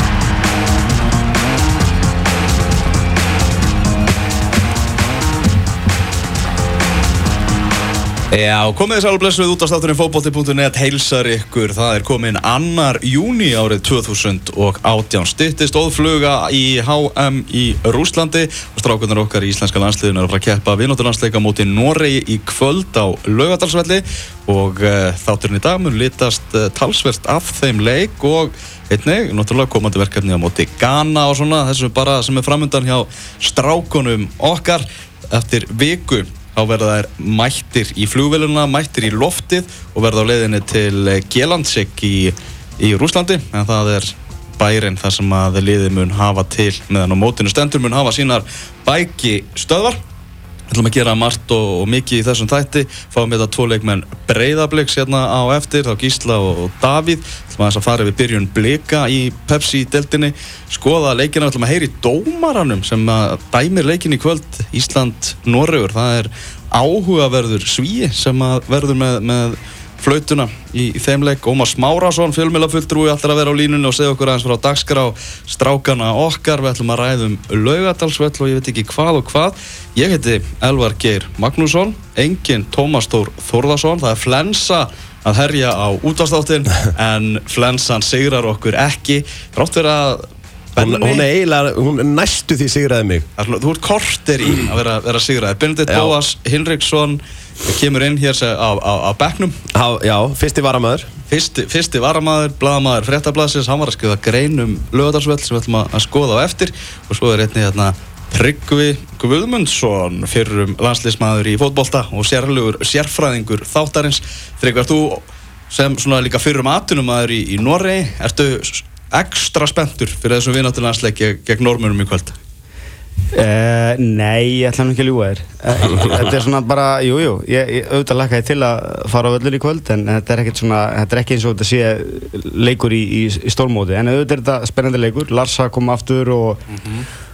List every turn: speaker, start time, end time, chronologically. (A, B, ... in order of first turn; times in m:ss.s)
0:08.3-0:50.0 A
0:50.7-1:31.3 A
1:30.8-1:33.3 B
1:33.4-1:39.6 A
1:35.9-1:36.2 B
1:39.7-1:41.1 B
1:41.3-2:02.4 A
2:03.3-2:16.6 C
2:16.7-2:17.0 A